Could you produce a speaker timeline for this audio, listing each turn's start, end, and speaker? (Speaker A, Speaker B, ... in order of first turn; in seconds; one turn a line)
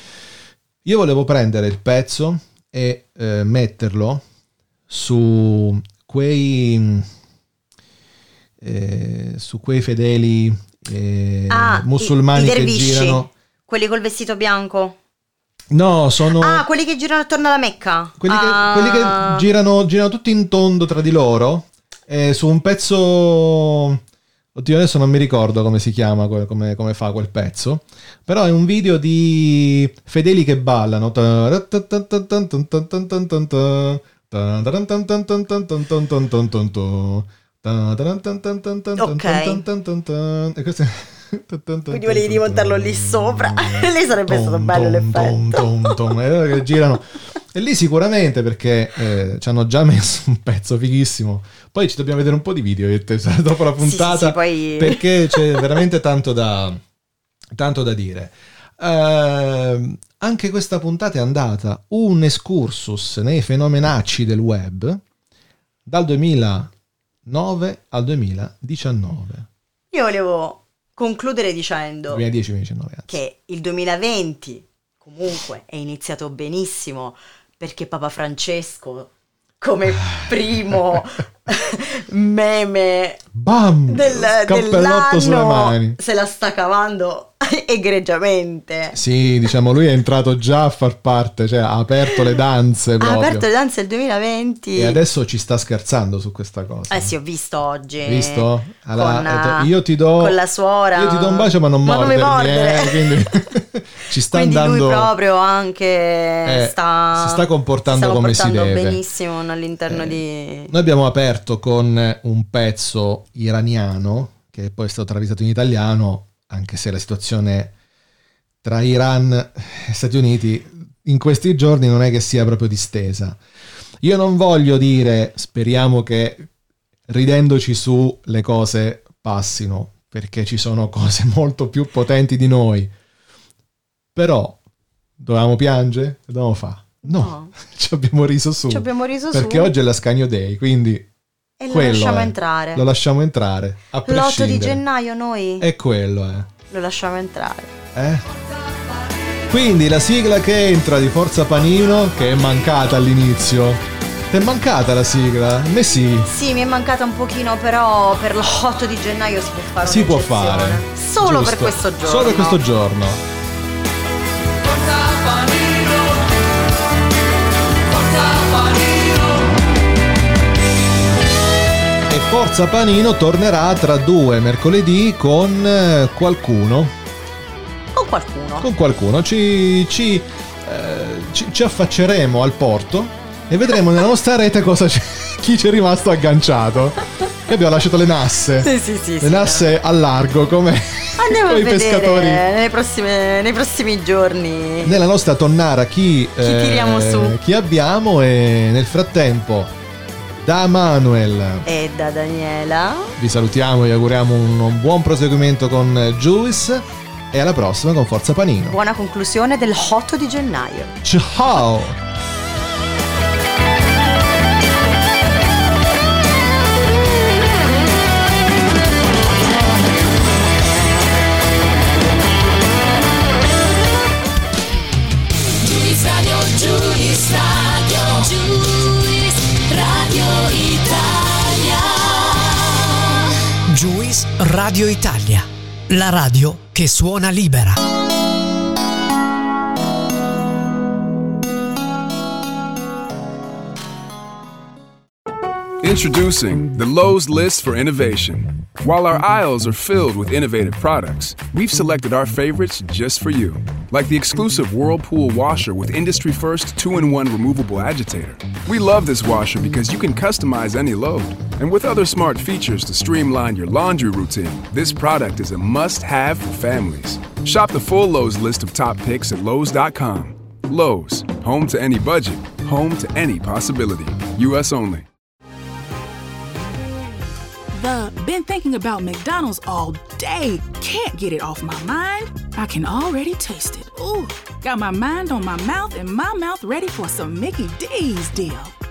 Speaker A: 0.8-4.2
Speaker A: 4.9-7.0
Speaker A: 8.6-13.3
Speaker B: 11.5-15.0
Speaker A: 15.7-16.6
Speaker B: 16.2-19.4
Speaker A: 18.2-24.0
Speaker A: 24.5-56.8
Speaker B: 39.0-39.6
Speaker B: 41.9-45.9
Speaker B: 53.8-55.6
Speaker A: 57.5-65.0
Speaker A: 65.8-66.7
Speaker A: 67.2-69.5
Speaker B: 69.9-72.2
Speaker A: 72.1-73.2
Speaker B: 73.1-83.2
Speaker A: 83.3-86.0
Speaker B: 83.9-89.0
Speaker A: 88.9-93.5
Speaker B: 93.0-95.0
Speaker A: 94.8-97.1
Speaker B: 96.9-103.2
Speaker A: 98.0-100.3
Speaker A: 100.9-105.1
Speaker B: 104.3-110.7
Speaker A: 106.4-109.0
Speaker A: 109.9-117.7
Speaker A: 118.6-123.4
Speaker A: 124.0-126.5
Speaker A: 127.1-132.9
Speaker A: 134.1-134.6
Speaker A: 135.2-141.1
Speaker B: 137.0-137.5
Speaker B: 138.7-139.7
Speaker B: 141.6-142.8
Speaker A: 141.7-144.8
Speaker B: 144.1-145.7
Speaker A: 145.6-146.5
Speaker B: 146.7-147.7
Speaker A: 147.9-148.2
Speaker A: 149.5-156.3
Speaker B: 156.2-162.6
Speaker A: 159.8-163.2
Speaker C: 165.1-165.8
Speaker C: 168.3-169.1
Speaker A: 172.1-176.9
Speaker B: 177.9-178.7
Speaker A: 178.6-192.4
Speaker B: 188.6-189.7
Speaker B: 191.2-195.0
Speaker A: 194.8-199.7
Speaker B: 196.4-197.4
Speaker A: 200.4-201.6
Speaker B: 201.7-203.1
Speaker A: 203.2-208.8
Speaker B: 208.7-210.9
Speaker A: 211.0-212.0
Speaker C: 233.8-235.3
Speaker C: 236.1-237.6
Speaker D: 245.8-275.1
Speaker E: 277.7-288.7